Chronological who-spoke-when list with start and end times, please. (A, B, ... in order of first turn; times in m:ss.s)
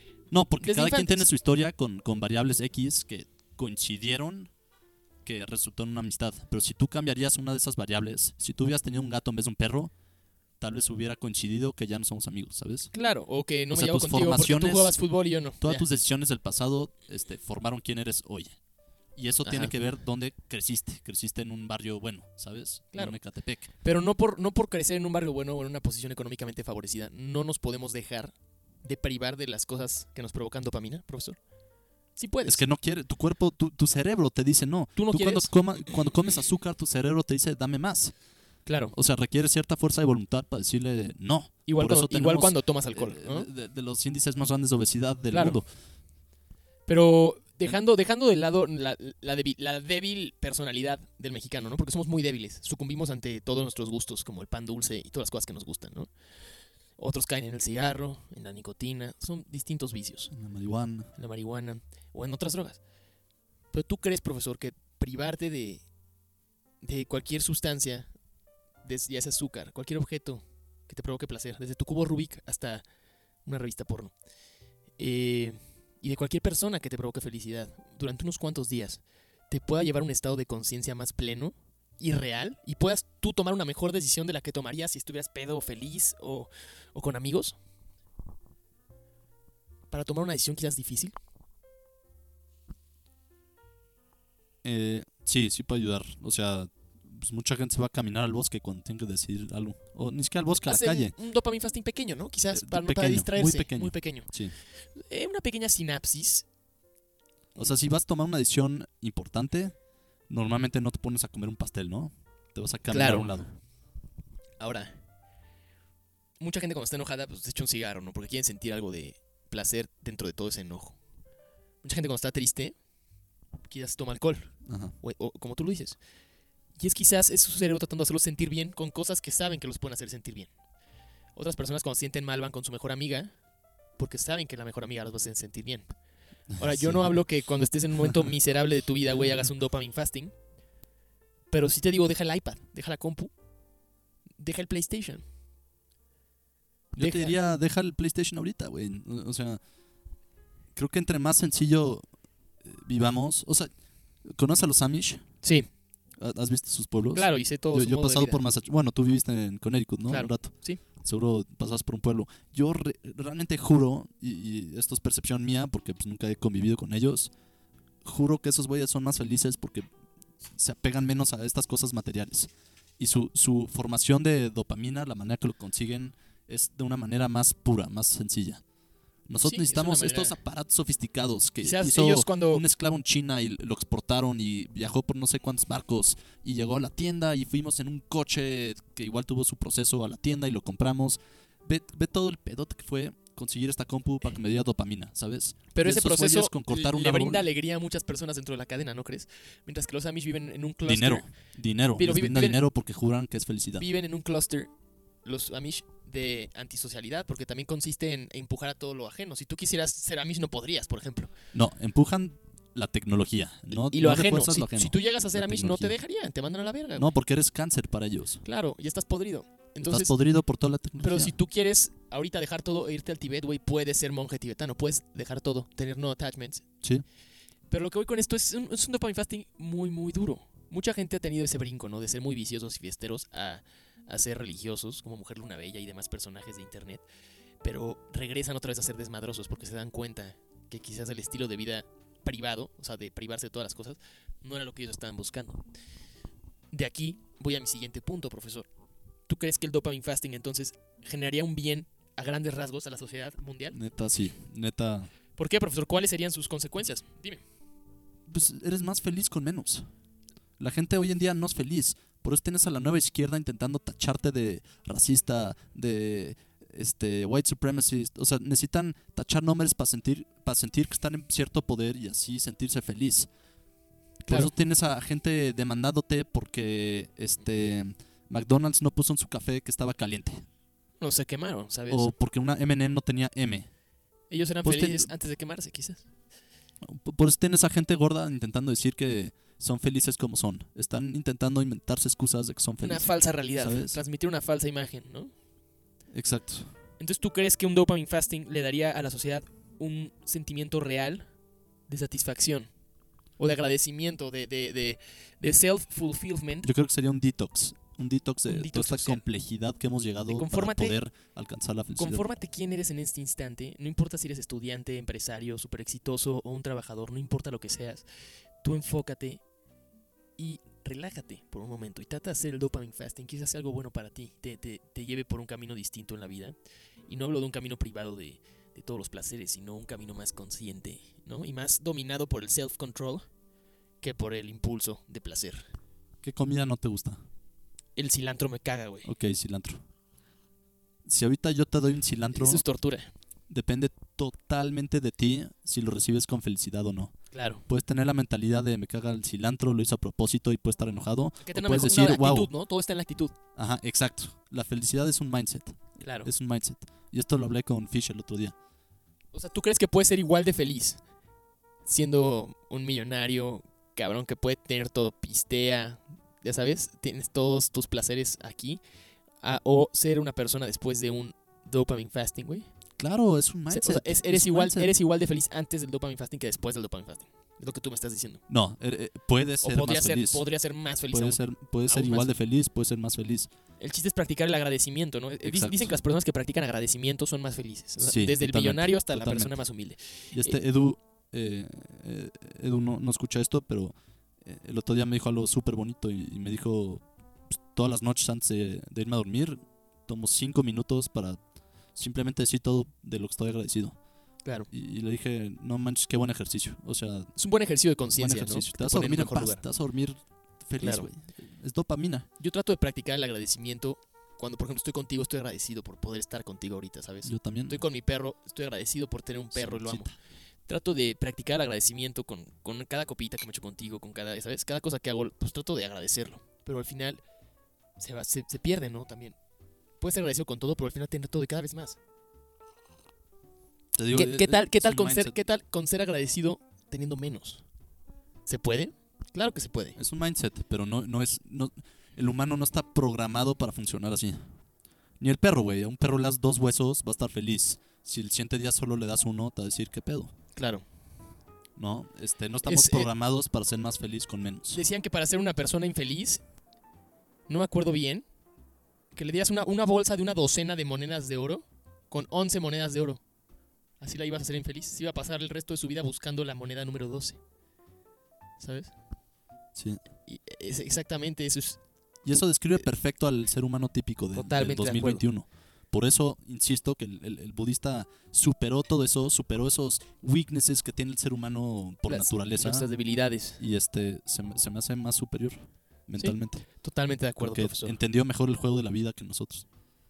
0:00.3-0:04.5 A
0:00.6-0:01.3 B
0:05.2-0:09.9 A
0:10.6-0:12.9 A
0:12.9-0:15.8 B
0:13.7-0:15.0 A
0:15.6-0:18.6 A
0:19.2-0:23.7 A
0:19.4-0:19.7 B
0:22.9-0:23.2 B
0:23.8-0:31.4 B
0:32.2-0:32.6 B
0:32.4-0:38.2 A
0:34.9-0:35.5 B
0:38.6-0:38.9 B
0:38.9-0:45.7 A
0:41.6-0:43.5 B
0:45.3-0:45.6 B
0:46.9-0:56.1 B
0:57.0-1:00.3 B
1:00.3-1:01.1 A
1:01.1-1:02.8 B
1:03.7-1:05.8 B
1:06.8-1:08.1 B
1:08.8-1:12.8 B
1:13.4-1:14.1 B
1:15.0-1:27.6 B
1:29.9-1:31.1 B
1:34.6-1:41.1 A
1:40.7-1:44.3 B
1:42.5-1:44.5 A
1:45.0-1:46.4 B
1:47.6-1:49.7 A
1:50.3-1:53.5 A
1:52.9-1:53.3 B
1:54.6-1:55.0 B
1:56.4-2:01.0 B
2:01.8-2:02.8 B
2:03.7-2:06.0 B
2:04.6-2:04.9 A
2:06.8-2:10.5 B
2:11.3-2:13.3 B
2:14.0-2:15.9 B
2:16.5-2:20.3 B
2:16.6-2:17.1 A
2:21.5-2:23.3 B
2:24.4-2:25.2 B
2:26.9-2:29.6 A
2:27.0-2:27.3 B
2:30.7-2:32.0 A
2:32.6-2:33.7 A
2:34.2-2:35.2 A
2:35.4-2:35.7 B
2:36.2-2:47.3 A
2:37.1-2:38.4 B
2:40.1-2:40.8 B
2:48.0-2:49.8 A
2:50.5-2:58.6 A
2:59.3-3:17.5 A
2:59.4-3:00.4 B
3:01.6-3:02.6 B
3:15.7-3:21.3 B
3:20.8-3:23.9 A
3:22.0-3:22.6 B
3:23.8-3:24.7 B
3:25.2-3:31.3 B
3:31.5-3:36.0 A
3:33.7-3:37.1 B
3:37.0-3:38.4 A
3:38.4-3:40.1 B
3:39.8-3:41.3 A
3:41.0-3:46.6 B
3:47.7-3:57.0 B
3:57.6-4:05.6 B
4:06.7-4:08.7 B
4:09.3-4:13.8 B
4:13.7-4:15.1 A
4:15.4-4:17.4 B
4:18.2-4:19.9 A
4:20.6-4:33.3 A
4:34.2-4:40.4 A
4:41.0-4:42.1 B
4:41.9-4:43.7 A
4:44.3-4:46.0 B
4:44.6-4:45.1 A
4:46.8-4:54.0 A
4:52.8-4:55.3 B
4:56.1-4:56.7 A
4:57.0-5:01.3 B
5:01.9-5:02.7 B
5:03.4-5:06.7 B
5:06.6-5:12.2 A
5:08.4-5:09.2 B
5:10.3-5:11.0 B
5:12.0-5:18.0 B
5:18.6-5:19.4 B
5:20.4-5:26.6 B
5:27.1-5:33.2 B
5:34.0-5:35.7 B
5:36.2-5:37.2 A
5:38.0-5:39.1 B
5:39.0-5:39.8 A
5:41.0-5:42.6 A
5:42.3-5:43.1 B
5:43.5-5:52.5 A
5:47.3-5:47.6 B
5:51.4-5:53.3 B
5:53.6-5:58.5 A
5:56.0-5:56.3 B
5:59.3-6:01.0 B
6:01.8-6:08.8 B
6:09.4-6:12.7 B
6:13.0-6:14.9 A
6:13.7-6:18.4 B
6:18.5-6:20.4 A
6:19.6-6:22.3 B
6:21.1-6:23.5 A
6:23.8-6:30.6 B
6:25.4-6:26.0 A
6:28.0-6:29.6 A
6:30.3-6:41.4 A
6:41.9-6:44.0 A
6:44.4-6:44.7 B
6:44.7-6:47.3 A
6:47.4-6:49.6 B
6:48.2-6:52.3 A
6:50.8-6:51.1 B
6:52.4-7:00.1 B
6:57.2-6:57.8 A
6:59.5-7:00.1 A
7:00.7-7:07.2 B
7:08.0-7:09.4 B
7:10.0-7:12.0 B
7:13.9-7:15.4 A
7:14.1-7:17.6 B
7:18.4-7:20.0 B
7:20.0-7:24.5 A
7:25.2-7:30.3 A
7:30.5-7:30.8 B
7:31.8-7:34.8 A
7:32.6-7:33.1 B
7:34.7-7:36.4 B
7:37.5-7:38.2 B
7:39.1-7:43.2 B
7:44.0-7:47.4 B
7:48.6-7:48.9 B
7:49.7-7:50.0 A
7:50.3-7:51.8 B
7:52.2-8:02.9 A
7:54.3-7:55.2 B
8:02.1-8:03.6 B
8:03.6-8:06.6 A
8:06.2-8:08.0 B
8:07.4-8:09.6 A